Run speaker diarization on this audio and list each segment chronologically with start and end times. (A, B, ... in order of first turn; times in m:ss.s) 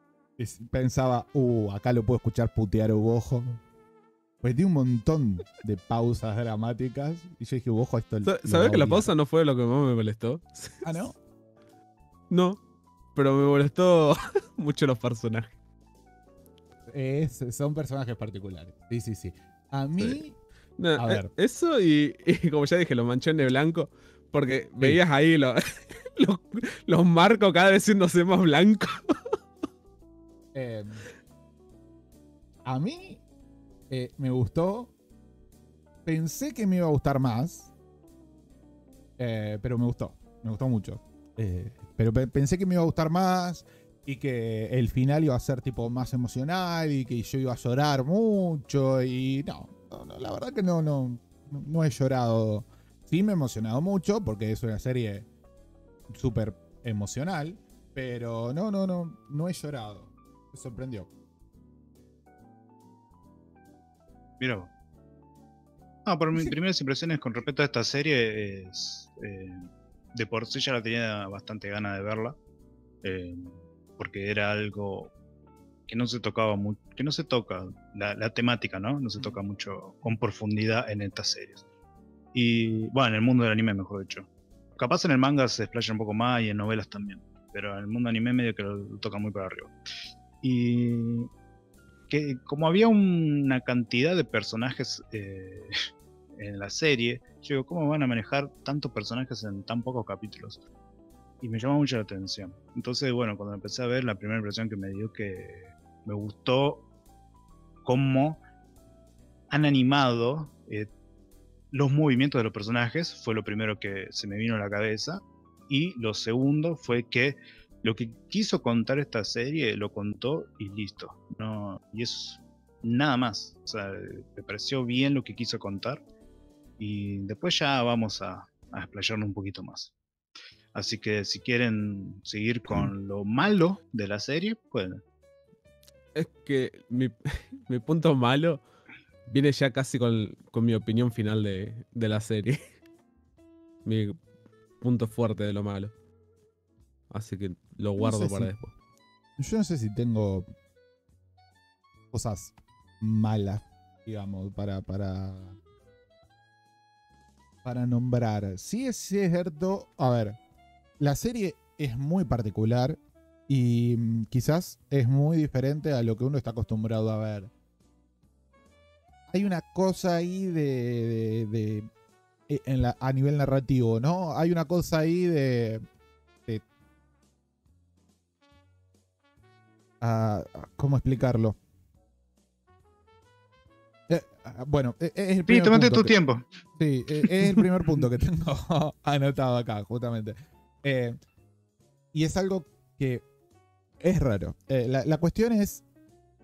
0:00.4-0:03.6 A
0:04.4-0:09.1 A
0:08.2-0:10.9 B
0:10.8-0:11.2 A
0:12.3-0:12.6 B
0:13.2-0:15.5 B
0:16.9-0:20.4 A
0:20.8-0:29.1 B
0:21.0-0:21.3 A
0:30.5-0:31.1 A
0:32.6-0:33.2 A
0:33.9-0:34.9 A
0:36.1-0:37.7 A
0:39.2-0:55.3 A
0:56.1-1:01.1 A
1:04.4-1:04.7 C
1:06.1-1:12.4 C
1:13.0-1:15.1 C
1:15.9-1:21.6 C
1:22.3-1:29.7 C
1:30.4-1:31.3 C
1:32.1-1:35.8 C
1:36.4-1:40.6 C
1:41.4-1:46.8 C
1:47.9-1:48.4 C
1:49.5-1:50.9 C
1:51.7-2:06.0 C
2:06.8-2:09.9 C
2:10.7-2:15.0 C
2:16.2-2:18.6 B
2:19.3-2:22.6 B
2:23.8-2:24.2 B
2:24.8-2:25.9 B
2:27.1-2:28.7 B
2:28.0-2:28.5 A
2:29.4-2:30.5 A
2:32.1-2:35.6 A
2:37.6-2:40.4 A
2:41.0-2:47.5 A
2:49.3-2:51.9 A
2:52.5-2:55.8 A
3:00.0-3:01.6 A
3:04.1-3:06.1 A
3:05.5-3:06.4 C
3:06.8-3:11.2 A
3:12.1-3:13.2 A
3:14.0-3:15.8 A